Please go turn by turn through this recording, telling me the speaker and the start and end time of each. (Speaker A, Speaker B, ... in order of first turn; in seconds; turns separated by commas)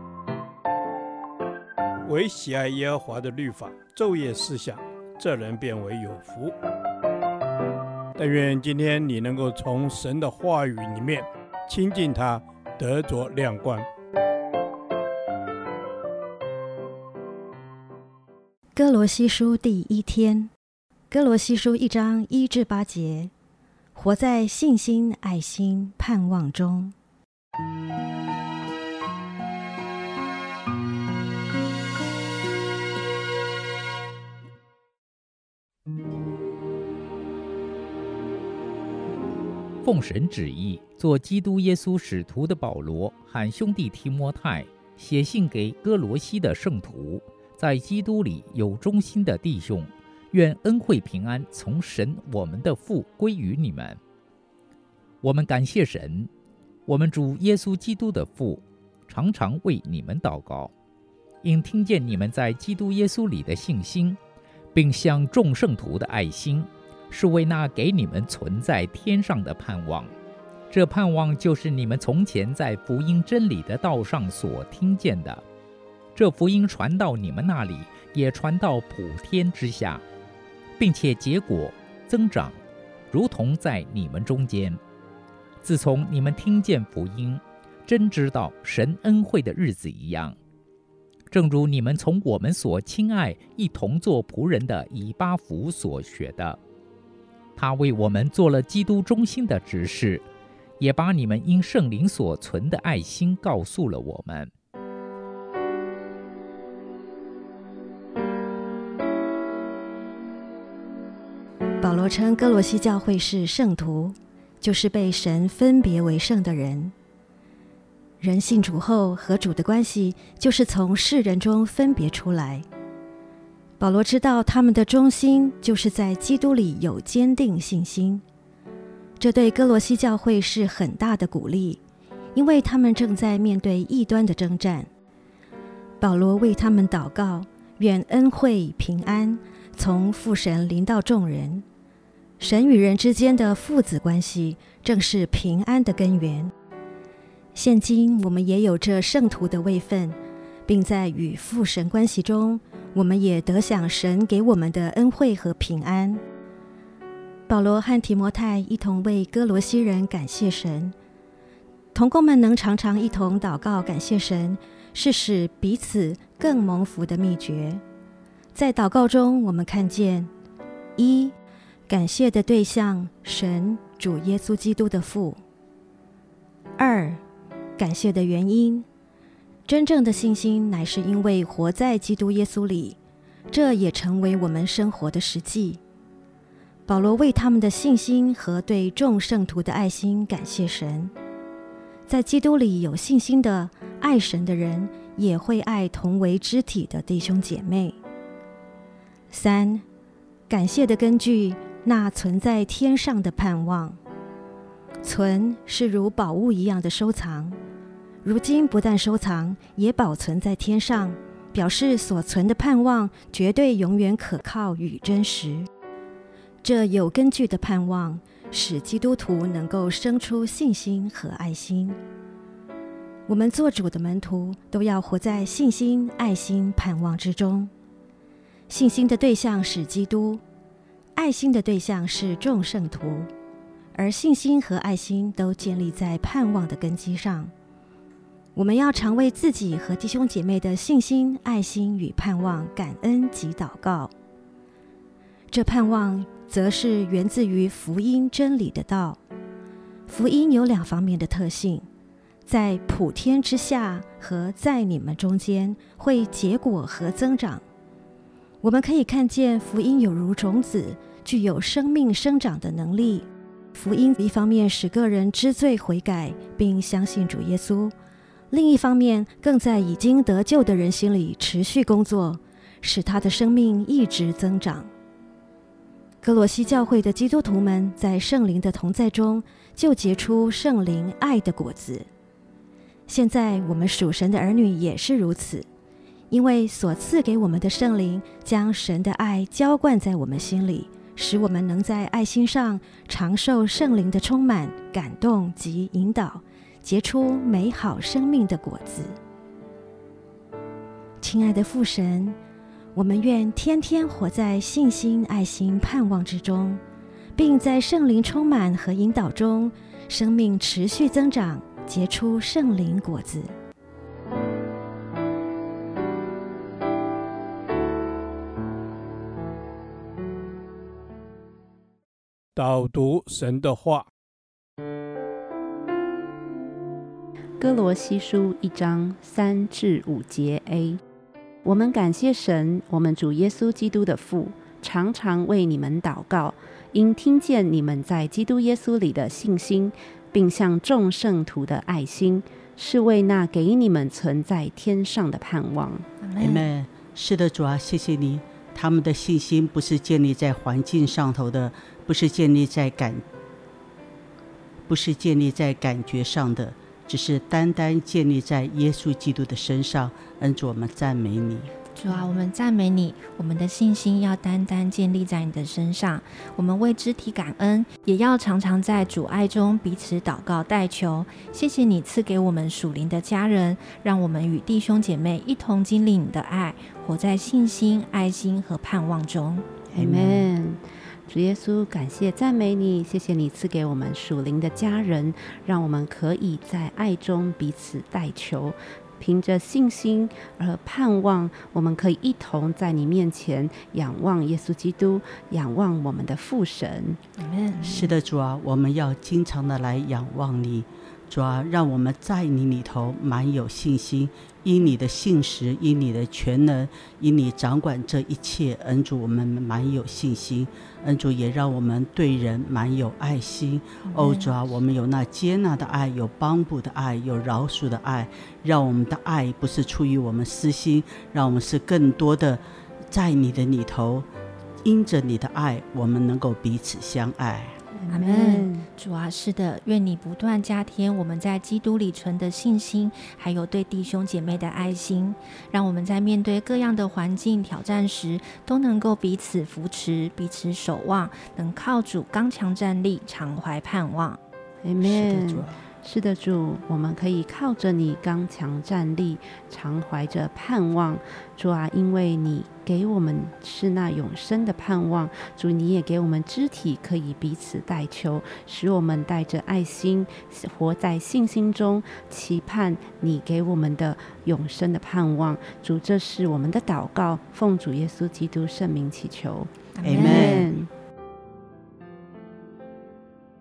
Speaker A: 2.1-6.6, Speaker A: 8.2-13.9, Speaker B: 18.8-20.5, Speaker B: 21.1-23.3, Speaker B: 23.9-26.9, Speaker C: 39.8-54.0, Speaker C: 55.2-56.3, Speaker C: 56.9-60.7, Speaker C: 61.4-64.2, Speaker C: 64.7-70.1, Speaker C: 70.7-75.4, Speaker C: 76.2-80.0, Speaker C: 80.8-82.6, Speaker C: 83.1-84.8, Speaker C: 85.6-90.4, Speaker C: 91.3-96.6, Speaker C: 97.6-100.2, Speaker C: 100.8-104.5, Speaker B: 111.8-116.9, Speaker B: 118.2-122.7, Speaker B: 123.8-128.2, Speaker B: 129.2-131.8, Speaker B: 132.3-134.9, Speaker B: 136.0-141.7, Speaker B: 142.4-146.5, Speaker B: 147.6-156.2, Speaker B: 157.5-160.9, Speaker B: 161.9-167.8, Speaker B: 168.6-170.3, Speaker B: 171.0-171.3, Speaker B: 171.9-175.4, Speaker B: 176.8-177.2, Speaker B: 177.8-178.9, Speaker B: 179.7-183.0, Speaker B: 183.5-185.8, Speaker B: 186.9-191.1, Speaker B: 192.1-198.0, Speaker B: 199.3-199.8, Speaker B: 200.5-204.0, Speaker B: 205.0-207.6, Speaker B: 208.2-215.7, Speaker B: 216.6-222.0, Speaker B: 223.3-227.7, Speaker B: 228.7-230.4, Speaker B: 231.2-233.3, Speaker B: 233.9-237.5, Speaker B: 238.6-244.1, Speaker B: 245.5-249.2, Speaker B: 250.1-251.9, Speaker B: 252.5-257.6, Speaker B: 258.6-267.9, Speaker B: 268.5-274.9, Speaker B: 276.2-282.1, Speaker B: 283.1-285.7, Speaker B: 286.3-299.2, Speaker B: 301.2-302.4, Speaker B: 302.9-306.8, Speaker B: 307.4-313.6, Speaker A: 322.6-324.1, Speaker D: 327.6-331.0, Speaker D: 331.6-346.1, Speaker E: 346.2-346.7, Speaker F: 346.4-353.2, Speaker F: 354.9-361.7, Speaker E: 361.9-379.7, Speaker D: 379.9-397.2, Speaker F: 379.9-380.5, Speaker E: 397.4-398.1, Speaker F: 397.8-424.3, Speaker E: 414.0-414.5, Speaker F: 424.8-427.8, Speaker D: 427.9-428.9, Speaker E: 428.1-444.4, Speaker D: 444.8-470.9, Speaker F: 445.0-445.8, Speaker E: 469.9-470.6, Speaker F: 470.0-470.7